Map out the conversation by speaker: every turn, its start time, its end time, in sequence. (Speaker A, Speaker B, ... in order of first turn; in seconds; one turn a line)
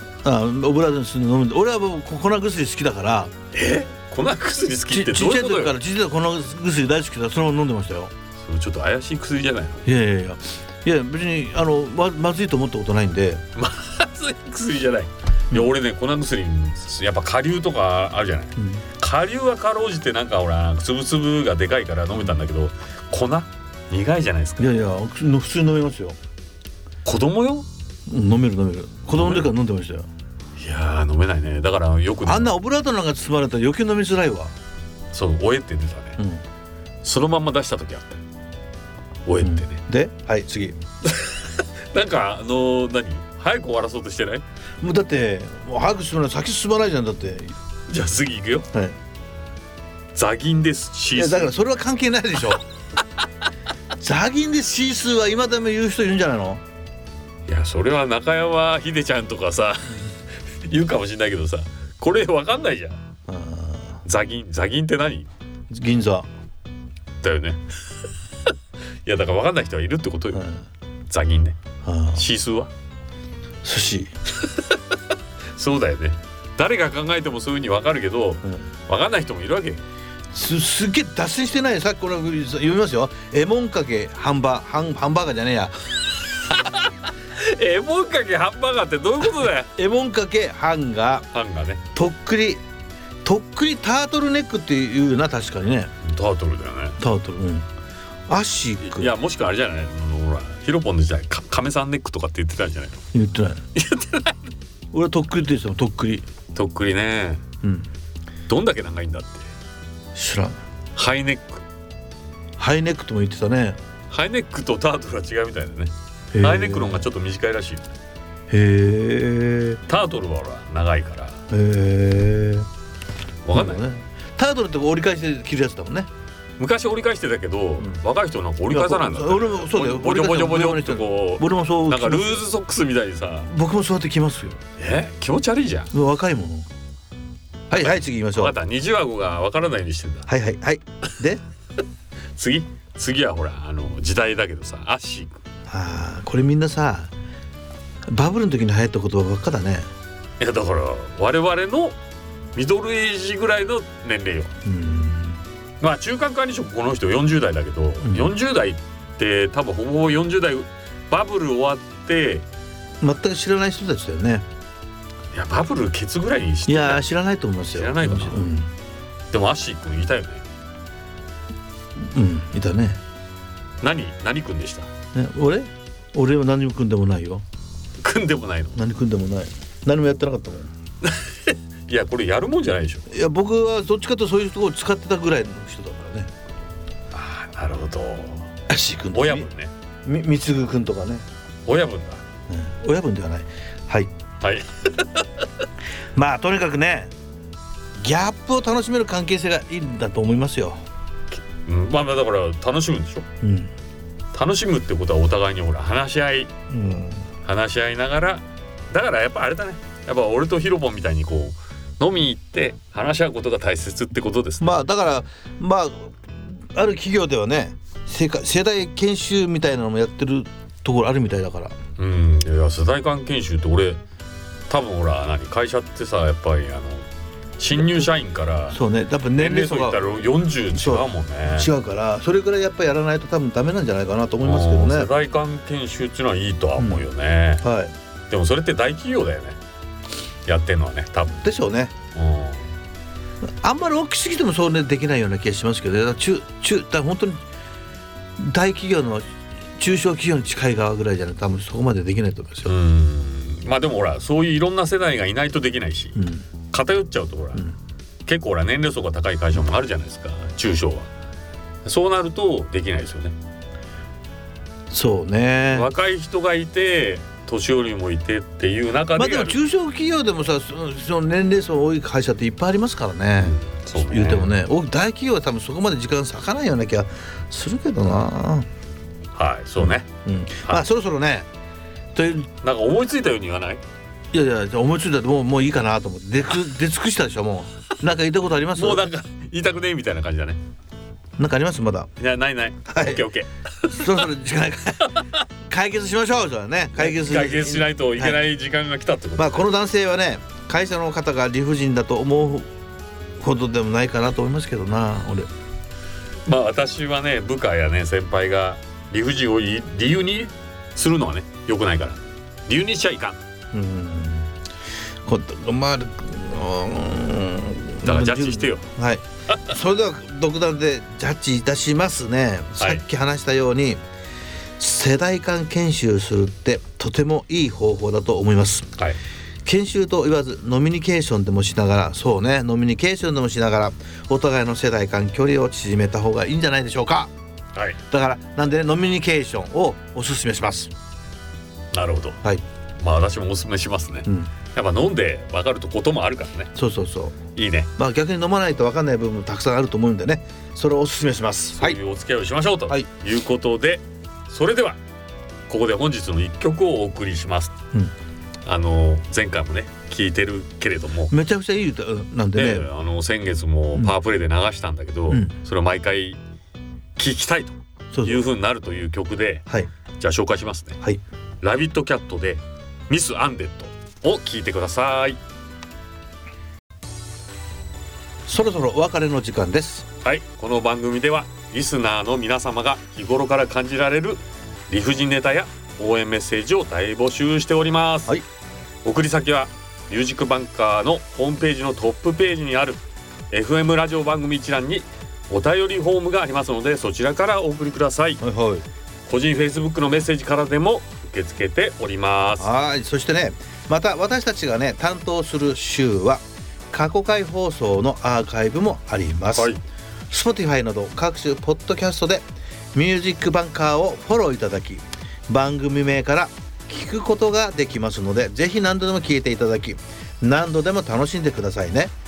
Speaker A: 0.2-3.3
Speaker B: 3.5-5.8
Speaker A: 4.9-8.1
Speaker B: 8.4-9.9
Speaker A: 9.8-13.4
Speaker B: 13.6-24.8
Speaker A: 18.6-18.8
Speaker A: 24.6-26.2
Speaker B: 27.1-27.7
Speaker A: 28.1-30.1
Speaker B: 29.1-29.5
Speaker B: 30.6-32.5
Speaker A: 32.2-34.5
Speaker B: 35.1-36.2
Speaker A: 36.2-36.4
Speaker B: 37.0-38.2
Speaker B: 39.3-39.8
Speaker A: 39.4-40.8
Speaker B: 41.0-44.4
Speaker A: 44.8-47.6
Speaker B: 47.9-48.7
Speaker B: 50.1-51.5
Speaker A: 51.1-52.6
Speaker A: 54.0-56.6
Speaker B: 57.5-63.0
Speaker A: 63.3-64.0
Speaker B: 64.0-65.3
Speaker A: 65.7-66.3
Speaker B: 67.2-67.6
Speaker B: 69.0-70.5
Speaker A: 70.3-70.6
Speaker B: 71.1-71.6
Speaker A: 71.8-72.2
Speaker B: 72.1-72.7
Speaker A: 73.6-74.1
Speaker B: 74.4-74.8
Speaker B: 75.5-79.8
Speaker A: 80.3-85.8
Speaker B: 86.3-89.7
Speaker A: 89.8-91.3
Speaker B: 91.3-91.8
Speaker A: 91.9-92.6
Speaker A: 93.2-95.9
Speaker B: 96.0-97.0
Speaker A: 97.0-97.7
Speaker A: 98.3-99.1
Speaker B: 98.8-103.0
Speaker A: 103.1-103.6
Speaker B: 103.8-104.5
Speaker A: 104.9-106.3
Speaker B: 106.5-107.4
Speaker A: 107.6-107.9
Speaker B: 108.5-109.5
Speaker A: 110.1-110.6
Speaker B: 111.0-111.7
Speaker A: 112.6-113.8
Speaker B: 114.1-117.9
Speaker A: 116.3-117.0
Speaker A: 118.5-119.8
Speaker B: 119.9-121.4
Speaker A: 121.5-122.7
Speaker B: 123.5-123.8
Speaker A: 123.5-126.1
Speaker B: 126.6-133.5
Speaker A: 128.7-132.4
Speaker A: 133.5-134.6
Speaker B: 134.8-135.9
Speaker A: 135.9-136.7
Speaker A: 137.7-138.6
Speaker B: 137.7-140.3
Speaker A: 140.3-141.4
Speaker B: 142.4-145.4
Speaker A: 145.7-147.1
Speaker A: 148.1-149.9
Speaker B: 150.4-152.0
Speaker B: 152.6-154.5
Speaker A: 154.7-155.4
Speaker B: 155.8-162.5
Speaker A: 158.0-158.3
Speaker A: 163.0-164.4
Speaker B: 165.3-167.1
Speaker A: 166.7-168.7
Speaker B: 167.7-168.5
Speaker B: 169.3-170.4
Speaker A: 172.0-173.0
Speaker B: 173.8-174.9
Speaker A: 175.1-177.4
Speaker B: 178.0-178.8
Speaker A: 178.8-180.7
Speaker B: 181.0-183.1
Speaker A: 183.1-186.3
Speaker B: 187.1-188.5
Speaker A: 188.7-189.5
Speaker B: 189.1-189.7
Speaker A: 190.0-191.2
Speaker B: 191.7-192.2
Speaker A: 192.5-194.1
Speaker B: 194.4-195.2
Speaker A: 196.1-197.1
Speaker A: 198.0-200.8
Speaker B: 201.3-203.3
Speaker A: 203.4-203.7
Speaker B: 204.3-206.5
Speaker A: 206.7-207.3
Speaker B: 207.4-215.1
Speaker A: 214.6-221.8
Speaker B: 222.0-224.0
Speaker B: 224.7-227.1
Speaker B: 227.6-228.8
Speaker A: 228.7-230.0
Speaker B: 229.4-231.7
Speaker A: 230.7-235.1
Speaker B: 234.4-237.7
Speaker A: 236.8-237.0
Speaker A: 237.6-237.9
Speaker B: 238.3-239.6
Speaker B: 240.5-241.4
Speaker A: 241.4-241.9
Speaker B: 242.2-242.7
Speaker A: 243.4-247.4
Speaker A: 248.4-252.7
Speaker B: 252.7-257.7
Speaker A: 256.2-256.4
Speaker B: 258.3-261.1
Speaker B: 261.9-263.4
Speaker A: 264.9-265.9
Speaker B: 265.7-269.6
Speaker A: 269.1-278.7
Speaker B: 273.4-274.6
Speaker B: 279.4-280.1
Speaker A: 279.8-281.5
Speaker A: 282.1-282.5
Speaker B: 282.6-283.8
Speaker A: 284.3-289.0
Speaker B: 288.8-290.6
Speaker A: 291.4-292.1
Speaker B: 292.2-294.2
Speaker A: 292.9-293.3
Speaker A: 293.9-298.4
Speaker B: 297.0-299.7
Speaker A: 299.4-302.7
Speaker A: 303.4-305.5
Speaker B: 306.5-313.4
Speaker A: 313.7-314.5
Speaker A: 315.2-324.0
Speaker B: 318.0-318.9
Speaker A: 324.8-329.0
Speaker A: 329.6-337.3
Speaker A: 338.1-340.9
Speaker B: 341.9-342.4
Speaker B: 343.0-346.7
Speaker A: 346.8-347.4
Speaker B: 347.6-347.9
Speaker A: 348.0-352.0
Speaker B: 351.8-355.0
Speaker B: 355.7-357.7
Speaker B: 358.7-361.3
Speaker A: 361.3-362.9
Speaker B: 362.6-366.4
Speaker B: 367.2-369.7
Speaker A: 368.1-368.4
Speaker B: 370.2-371.0
Speaker B: 371.6-375.4
Speaker A: 378.5-380.1
Speaker B: 380.2-388.4
Speaker B: 389.1-398.4
Speaker A: 398.4-398.9
Speaker B: 399.3-402.7
Speaker A: 402.6-409.7
Speaker B: 409.6-409.8
Speaker A: 410.3-422.1